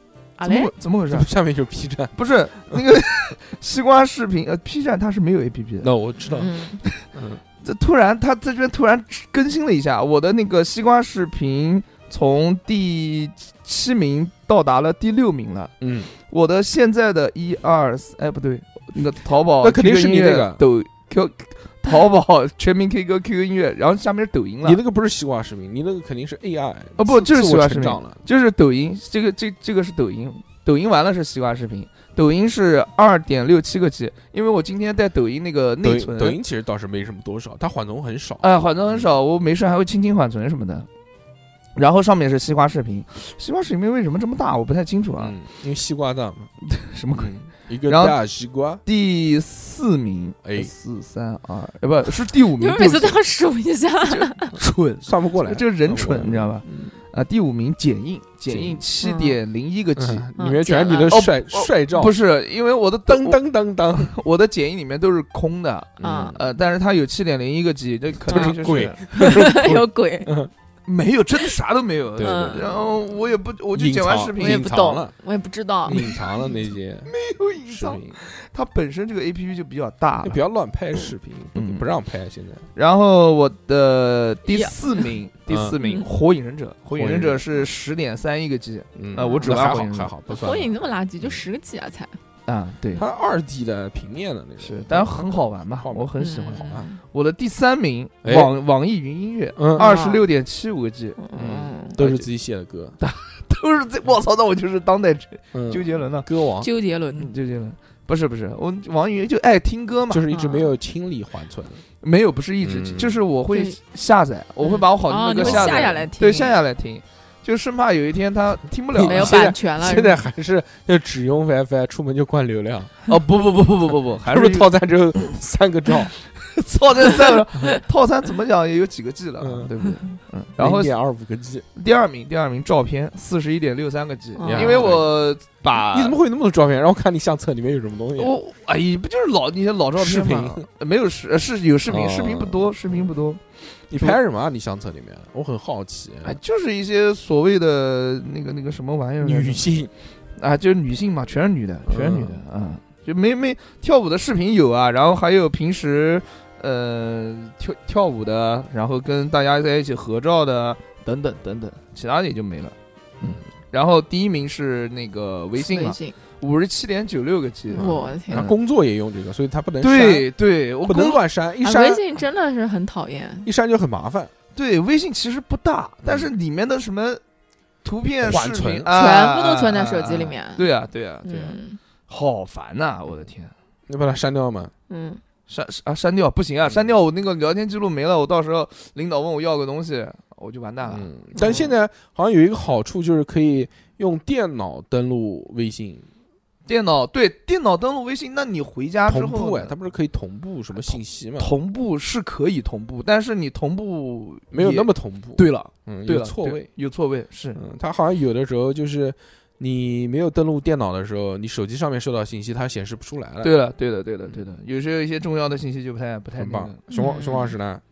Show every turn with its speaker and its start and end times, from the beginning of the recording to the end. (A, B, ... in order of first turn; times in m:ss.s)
0:00.4-0:00.7 A
0:00.4-0:01.3 B
0:01.1-0:02.2 C
0:02.2-0:05.9 B
0:05.8-0:06.5 C
0:06.3-0:06.8 A
0:07.1-0:07.4 C
0:07.6-0:24.8 B
0:15.8-0:16.1 C
0:19.6-0:20.6 C
0:24.6-0:28.2 C
0:27.0-0:36.4 B
0:35.8-0:39.1 C
0:38.4-0:40.9 B
0:41.8-0:45.4 B
0:45.2-0:46.5 C
0:46.6-0:48.2 B
0:47.2-0:48.8 C
0:48.8-0:53.2 B
0:50.4-0:50.7 C
0:52.6-0:54.5 A
0:54.1-1:00.3 B
0:55.0-0:56.9 C
0:58.5-0:58.8 C
0:59.0-0:59.4 A
1:00.0-1:02.2 C
1:00.4-1:01.2 A
1:01.1-1:09.6 B
1:03.1-1:04.1 C
1:06.0-1:06.4 C
1:06.0-1:06.4 A
1:08.3-1:10.5 C
1:08.3-1:08.6 A
1:09.1-1:10.3 A
1:10.9-1:14.7 B
1:12.2-1:12.8 C
1:12.2-1:12.7 A
1:13.7-1:15.1 C
1:14.4-1:16.7 A
1:15.9-1:17.1 C
1:15.9-1:16.2 B
1:17.1-1:20.4 B
1:17.7-1:18.2 C
1:20.2-1:22.7 C
1:21.5-1:21.9 B
1:22.8-1:30.1 B
1:24.5-1:25.1 A
1:25.5-1:25.8 C
1:27.0-1:27.5 C
1:29.0-1:31.4 C
1:29.2-1:29.7 A
1:30.3-1:32.2 A
1:32.5-1:33.0 B
1:33.0-1:36.9 C
1:34.6-1:41.2 B
1:36.2-1:37.0 A
1:38.2-1:38.5 C
1:39.6-1:39.9 C
1:39.8-1:40.2 A
1:41.2-1:42.0 A
1:41.4-1:43.0 C
1:41.9-1:42.3 B
1:43.0-1:46.3 B
1:45.5-1:46.7 C
1:46.6-1:47.3 A
1:47.1-1:50.2 B
1:50.1-1:51.8 C
1:50.3-1:50.8 A
1:52.0-1:59.4 B
1:52.6-1:53.2 C
1:53.5-1:53.8 A
1:54.6-1:56.6 A
1:55.4-1:56.0 C
1:58.9-2:03.1 C
1:59.0-2:00.2 A
2:03.1-2:04.7 B
2:04.3-2:06.1 C
2:06.4-2:10.9 B
2:09.4-2:09.7 C
2:10.6-2:11.6 C
2:11.8-2:16.2 B
2:14.4-2:14.9 A
2:14.4-2:15.1 C
2:15.8-2:18.3 C
2:18.2-2:23.4 B
2:20.0-2:20.6 C
2:21.9-2:22.7 C
2:23.9-2:26.4 C
2:23.9-2:24.2 B
2:26.2-2:29.7 B
2:29.2-2:29.9 C
2:30.4-2:47.9 B
2:31.9-2:32.4 C
2:45.6-2:46.2 A
2:47.7-2:50.3 C
2:47.8-2:48.5 A
2:49.8-2:51.2 B
2:50.9-2:52.0 C
2:51.6-2:53.5 A
2:53.4-2:54.3 C
2:54.6-2:57.2 B
2:56.0-2:56.3 C
2:57.8-3:03.5 B
2:58.2-2:59.0 C
2:58.9-3:00.6 A
3:01.2-3:01.8 A
3:03.9-3:04.7 C
3:04.9-3:05.2 A
3:05.5-3:11.7 B
3:10.9-3:16.1 C
3:11.4-3:11.7 A
3:16.7-3:19.7 B
3:19.1-3:21.5 C
3:20.8-3:27.6 B
3:24.5-3:26.7 C
3:27.6-3:33.5 C
3:33.4-3:36.8 B
3:36.4-3:37.8 C
3:36.9-3:37.6 A